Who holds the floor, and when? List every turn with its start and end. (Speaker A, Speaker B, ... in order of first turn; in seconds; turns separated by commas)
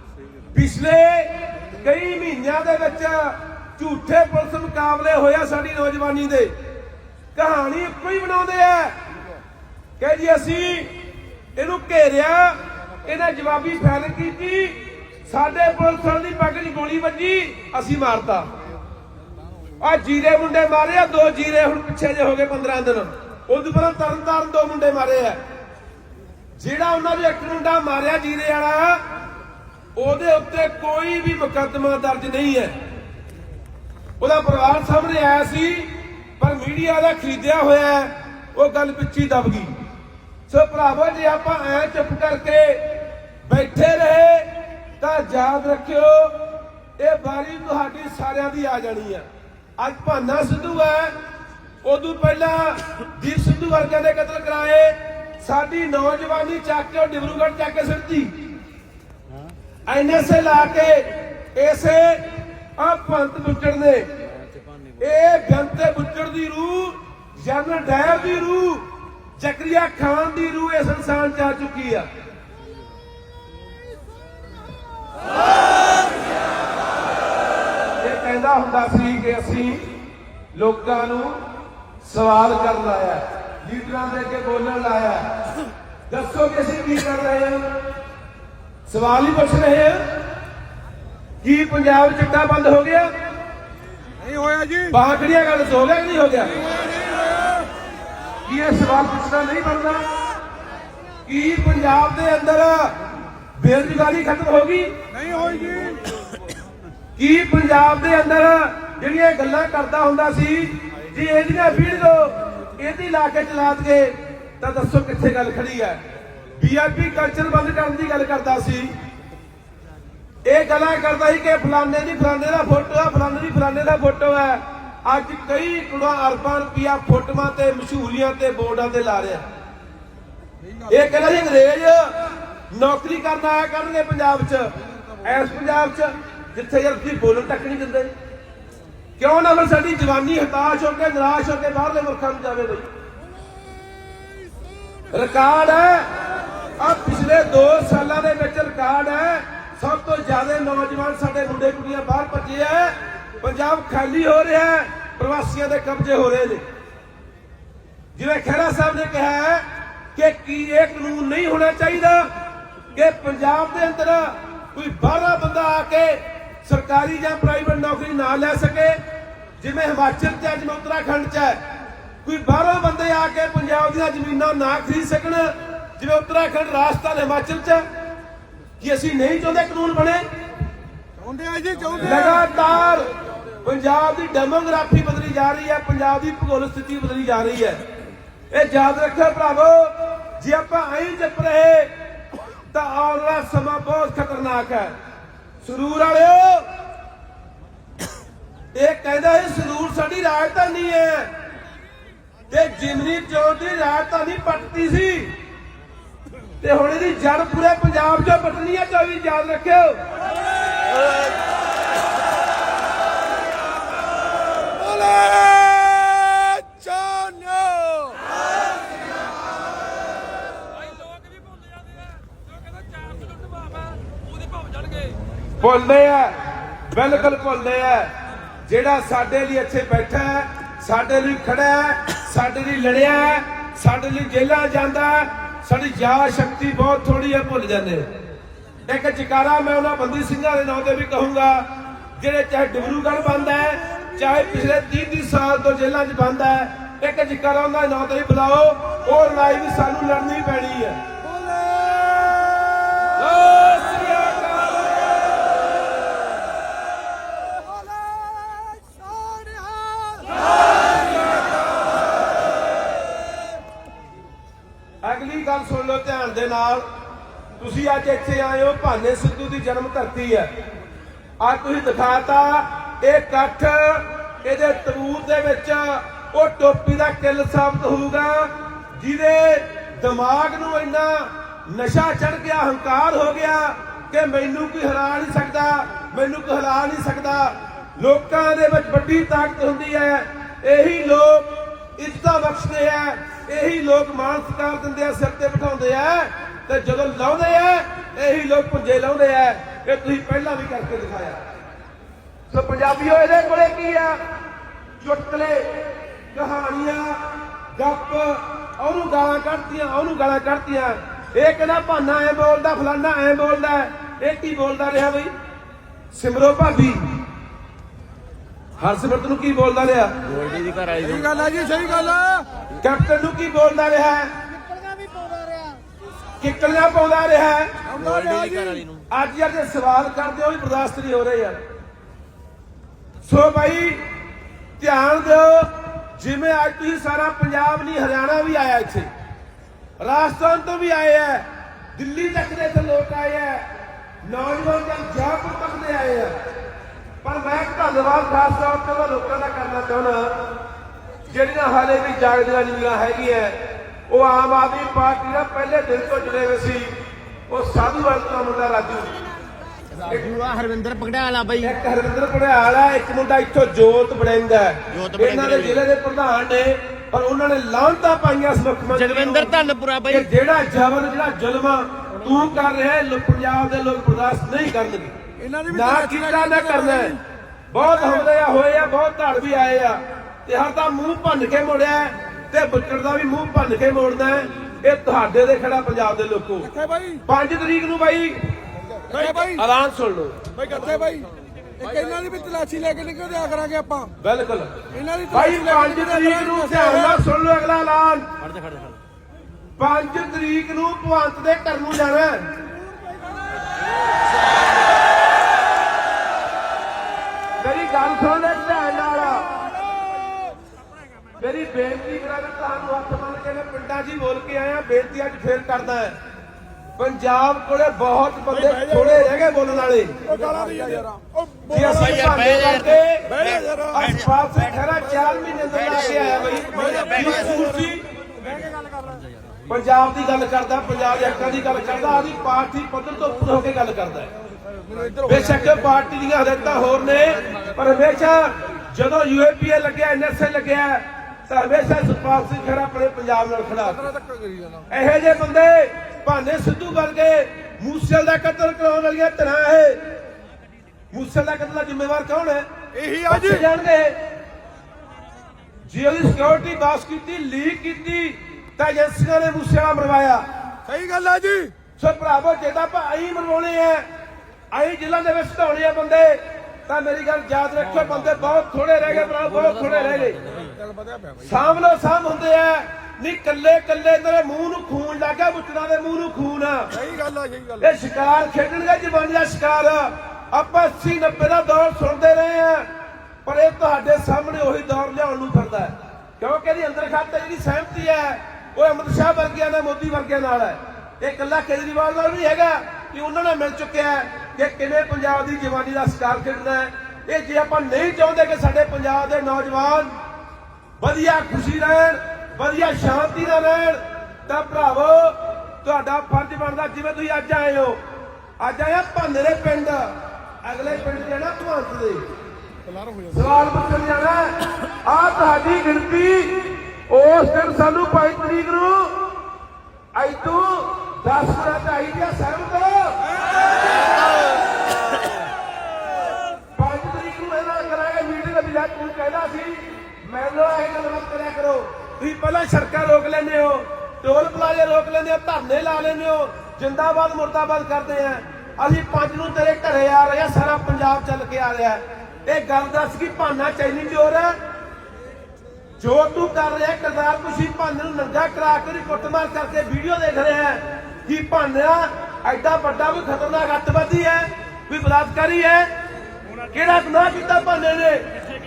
Speaker A: 0.5-6.5, Speaker A: 7.3-8.9, Speaker A: 10.0-10.9, Speaker A: 11.6-18.5, Speaker A: 19.8-25.4, Speaker A: 26.6-29.0, Speaker A: 29.9-32.7, Speaker A: 34.2-39.7, Speaker A: 40.5-42.9, Speaker A: 43.5-46.4, Speaker A: 47.0-49.2, Speaker A: 49.8-51.1, Speaker A: 51.8-58.3, Speaker A: 59.9-62.2, Speaker A: 62.8-64.1, Speaker A: 65.0-68.9, Speaker A: 69.4-72.1, Speaker A: 78.0-79.9, Speaker A: 80.5-81.4, Speaker A: 82.0-85.2, Speaker A: 86.1-87.7, Speaker A: 88.9-90.0, Speaker A: 91.4-93.1, Speaker B: 94.2-94.9, Speaker A: 94.9-96.6, Speaker A: 98.5-100.0, Speaker A: 101.2-103.0, Speaker A: 103.6-104.9, Speaker B: 105.2-106.0, Speaker A: 107.2-116.0, Speaker A: 116.5-118.9, Speaker A: 120.4-129.4, Speaker A: 130.9-132.1, Speaker A: 132.7-134.7, Speaker A: 135.2-138.1, Speaker A: 139.2-142.8, Speaker A: 145.1-146.1, Speaker A: 146.8-156.6, Speaker A: 158.1-159.6, Speaker A: 160.1-162.3, Speaker A: 162.9-169.0, Speaker A: 169.6-171.6, Speaker A: 172.2-177.8, Speaker A: 178.8-180.2, Speaker B: 181.2-182.0, Speaker A: 182.0-183.1, Speaker A: 183.6-187.8, Speaker A: 188.5-191.9, Speaker A: 192.7-194.9, Speaker A: 195.6-196.7, Speaker A: 198.7-201.3, Speaker A: 202.5-205.3, Speaker A: 206.6-210.0, Speaker B: 214.9-218.1, Speaker A: 225.6-226.3, Speaker A: 226.9-228.1, Speaker A: 228.6-238.1, Speaker A: 238.8-241.7, Speaker A: 242.2-251.0, Speaker B: 251.3-253.1, Speaker A: 253.1-255.1, Speaker B: 258.0-260.4, Speaker A: 265.0-266.8, Speaker A: 267.6-270.5, Speaker A: 271.4-301.4, Speaker A: 302.5-304.2, Speaker A: 305.0-307.2, Speaker A: 307.7-315.3, Speaker A: 316.1-317.2, Speaker A: 318.8-320.1, Speaker C: 320.2-321.4, Speaker B: 321.1-322.5, Speaker A: 322.8-324.3, Speaker A: 326.4-327.7, Speaker B: 327.9-328.7, Speaker C: 327.9-329.0, Speaker A: 329.1-331.6, Speaker A: 333.2-334.0, Speaker A: 334.8-339.1, Speaker A: 340.0-343.6, Speaker A: 344.2-346.3, Speaker A: 347.2-350.3, Speaker A: 351.3-353.6, Speaker A: 354.1-356.9, Speaker A: 357.5-359.2, Speaker C: 360.0-361.7, Speaker A: 361.6-369.5, Speaker C: 364.9-365.8, Speaker C: 368.9-370.3, Speaker A: 370.1-375.1, Speaker B: 375.4-377.1, Speaker A: 375.7-377.2, Speaker A: 377.7-386.7, Speaker B: 386.8-387.2, Speaker A: 387.3-388.4, Speaker B: 389.2-389.6, Speaker A: 389.2-390.4, Speaker B: 390.6-391.3, Speaker B: 391.8-394.1, Speaker A: 394.2-394.8, Speaker B: 394.9-397.0, Speaker A: 395.3-398.3, Speaker A: 399.8-402.4, Speaker A: 407.6-409.6, Speaker A: 411.4-416.2, Speaker A: 417.0-420.1, Speaker B: 420.3-421.5, Speaker A: 421.7-423.3, Speaker C: 421.8-424.3, Speaker B: 423.4-423.6, Speaker A: 423.9-428.0, Speaker C: 426.5-427.6, Speaker A: 429.7-434.3, Speaker B: 434.9-435.2, Speaker A: 435.2-444.1, Speaker B: 444.3-444.8, Speaker A: 444.9-450.0, Speaker A: 451.1-452.7, Speaker B: 452.9-453.6, Speaker A: 453.3-454.1, Speaker A: 455.9-460.4, Speaker B: 460.9-461.7, Speaker A: 462.0-464.1, Speaker A: 464.7-470.4, Speaker B: 470.7-471.3, Speaker A: 471.4-476.9, Speaker B: 477.0-477.8, Speaker A: 477.8-482.9, Speaker A: 483.4-500.1, Speaker A: 501.0-508.0, Speaker A: 508.6-512.2, Speaker A: 513.3-519.2, Speaker A: 520.1-523.2, Speaker A: 526.8-544.6, Speaker A: 546.0-555.9, Speaker A: 556.7-558.2